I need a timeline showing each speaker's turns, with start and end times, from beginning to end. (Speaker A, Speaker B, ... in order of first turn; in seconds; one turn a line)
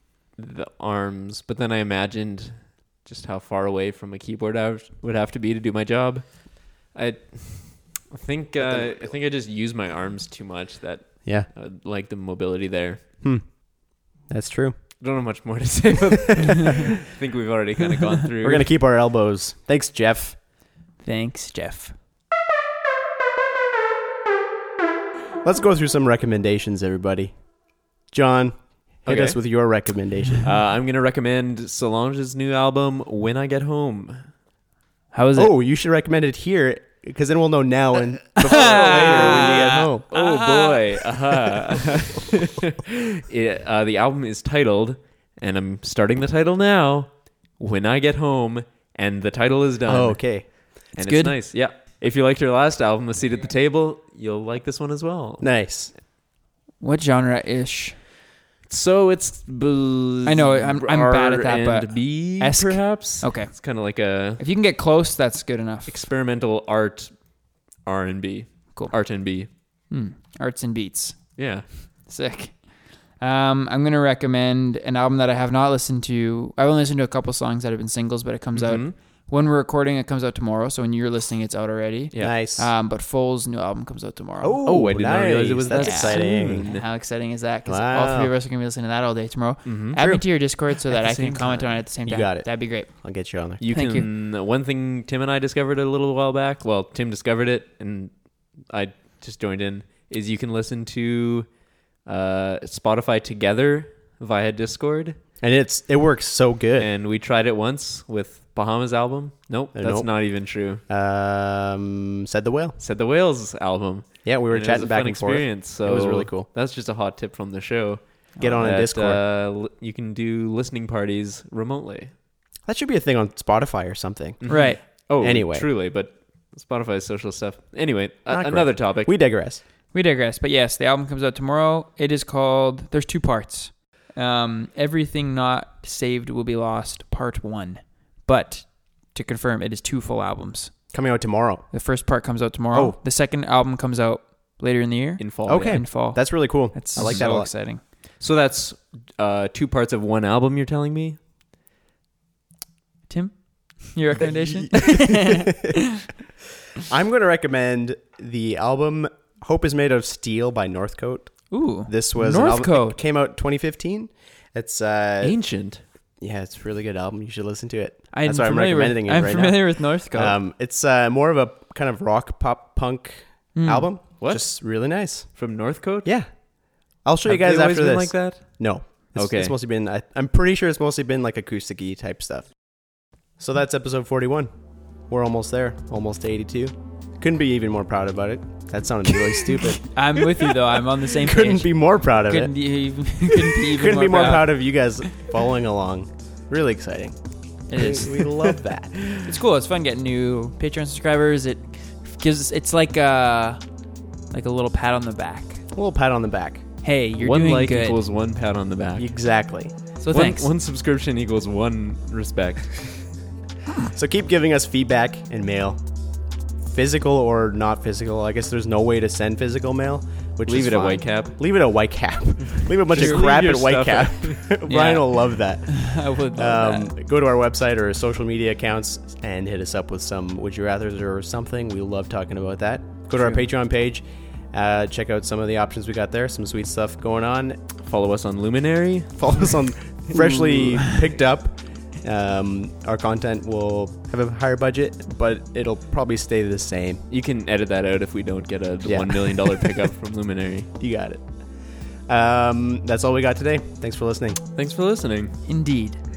Speaker A: 0.4-13.0
Speaker B: 8.6-9.0
Speaker B: 13.2-14.8
Speaker A: 15.0-18.7
Speaker B: 16.3-16.8
Speaker B: 18.4-20.4
Speaker C: 21.0-21.9
Speaker B: 25.4-27.4
Speaker B: 28.1-30.5
Speaker A: 29.0-29.4
Speaker A: 30.4-34.2
Speaker C: 35.1-35.5
Speaker B: 35.4-40.0
Speaker C: 38.4-40.8
Speaker A: 38.5-55.5
Speaker B: 49.9-50.5
Speaker C: 51.0-51.4
Speaker B: 55.4-55.9
Speaker C: 56.8-58.0
Speaker A: 58.7-64.4
Speaker C: 60.2-63.8
Speaker C: 64.4-66.0
Speaker A: 65.9-69.5
Speaker C: 69.5-84.6
Speaker A: 71.4-71.8
Speaker A: 78.5-78.9
Speaker B: 82.2-82.7
Speaker B: 84.4-86.7
Speaker A: 84.6-86.8
Speaker C: 85.7-92.9
Speaker B: 87.7-88.3
Speaker A: 89.6-90.0
Speaker B: 90.0-90.2
Speaker A: 90.9-91.8
Speaker B: 92.0-93.6
Speaker A: 93.6-101.5
Speaker C: 93.7-94.1
Speaker A: 102.0-105.2
Speaker B: 105.4-106.9
Speaker A: 106.8-110.8
Speaker B: 109.7-110.2
Speaker B: 110.9-112.8
Speaker A: 112.8-122.1
Speaker B: 114.2-116.5
Speaker C: 118.4-118.6
Speaker B: 118.4-119.2
Speaker B: 122.7-125.7
Speaker A: 124.4-129.1
Speaker C: 124.5-124.8
Speaker B: 128.3-129.6
Speaker C: 129.9-140.9
Speaker B: 140.9-141.7
Speaker C: 141.7-147.8
Speaker B: 142.7-143.0
Speaker A: 145.2-145.8
Speaker B: 145.5-147.5
Speaker A: 146.9-147.5
Speaker A: 148.2-151.2
Speaker C: 153.1-156.0
Speaker B: 154.9-155.7
Speaker B: 156.8-165.4
Speaker C: 161.5-163.0
Speaker A: 165.2-165.8
Speaker B: 166.2-182.5
Speaker C: 168.1-170.4
Speaker C: 173.5-173.9
Speaker A: 174.2-174.8
Speaker A: 175.3-176.1
Speaker A: 177.2-179.5
Speaker B: 183.4-184.5
Speaker B: 185.1-189.9
Speaker C: 189.8-195.1
Speaker B: 191.1-192.5
Speaker B: 193.5-197.2
Speaker C: 197.7-198.2
Speaker B: 197.7-199.0
Speaker A: 198.4-199.2
Speaker C: 199.2-203.6
Speaker C: 204.3-205.6
Speaker B: 205.7-206.6
Speaker C: 206.8-208.0
Speaker A: 207.2-209.1
Speaker B: 209.0-209.7
Speaker A: 210.0-213.0
Speaker C: 210.1-210.5
Speaker B: 213.9-215.8
Speaker B: 216.6-237.6
Speaker A: 220.4-221.4
Speaker A: 222.9-224.5
Speaker C: 222.9-223.2
Speaker C: 224.7-226.9
Speaker C: 233.2-233.4
Speaker A: 237.8-239.5
Speaker B: 239.2-247.0
Speaker A: 247.1-250.7
Speaker B: 248.8-249.7
Speaker B: 250.8-251.3
Speaker B: 252.1-254.4
Speaker A: 254.6-255.3
Speaker C: 255.4-256.0